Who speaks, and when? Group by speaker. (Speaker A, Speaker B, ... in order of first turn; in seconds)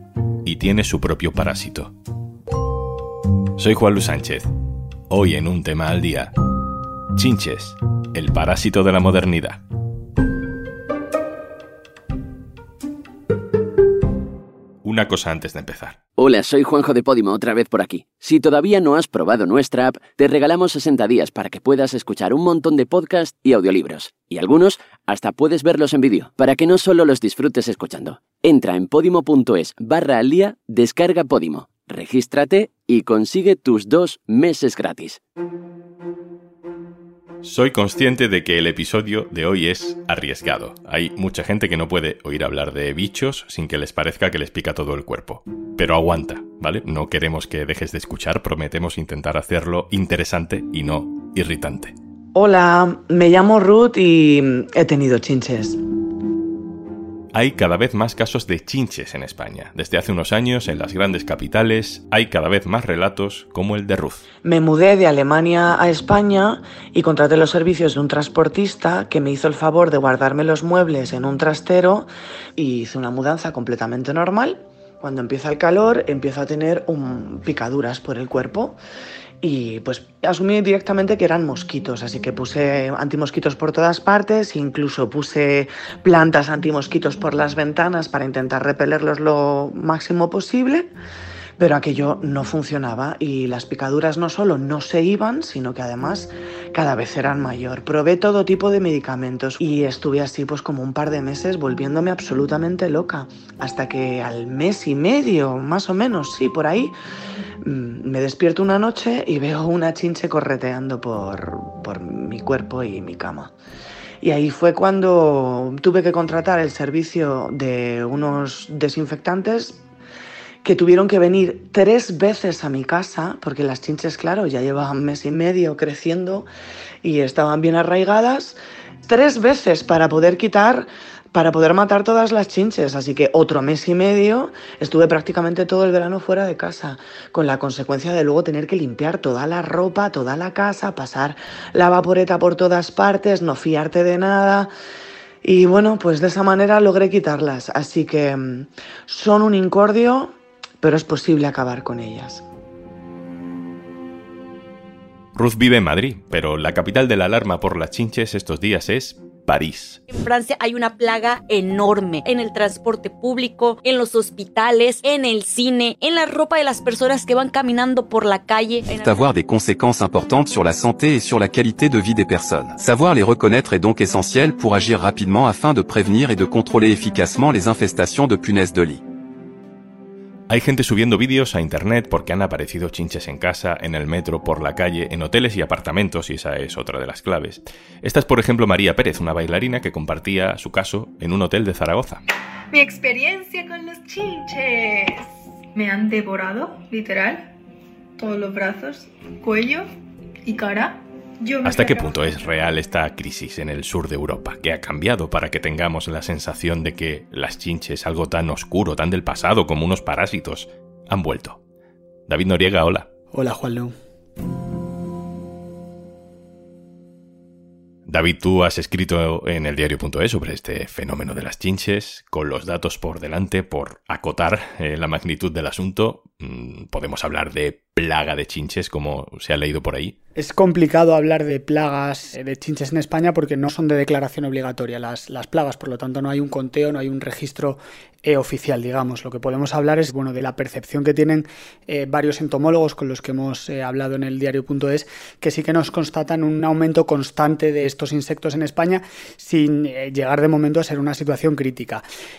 Speaker A: 0.4-1.9, 3.6-4.5, 5.1-6.3, 7.2-9.6, 14.8-16.0, 37.4-51.9, 57.3-64.2, 155.3-160.0, 180.5-192.2, 201.6-211.6, 212.3-213.1, 218.1-230.1
Speaker B: 16.2-35.2
Speaker C: 52.3-55.8, 64.4-78.8, 79.4-90.9, 91.6-106.9, 107.6-113.5, 114.2-119.8, 120.6-126.5, 127.0-144.7, 145.4-152.4
Speaker D: 160.1-169.2
Speaker E: 168.9-179.0
Speaker F: 192.7-197.5, 198.2-199.9, 200.4-202.2
Speaker G: 213.3-213.9, 230.3-252.0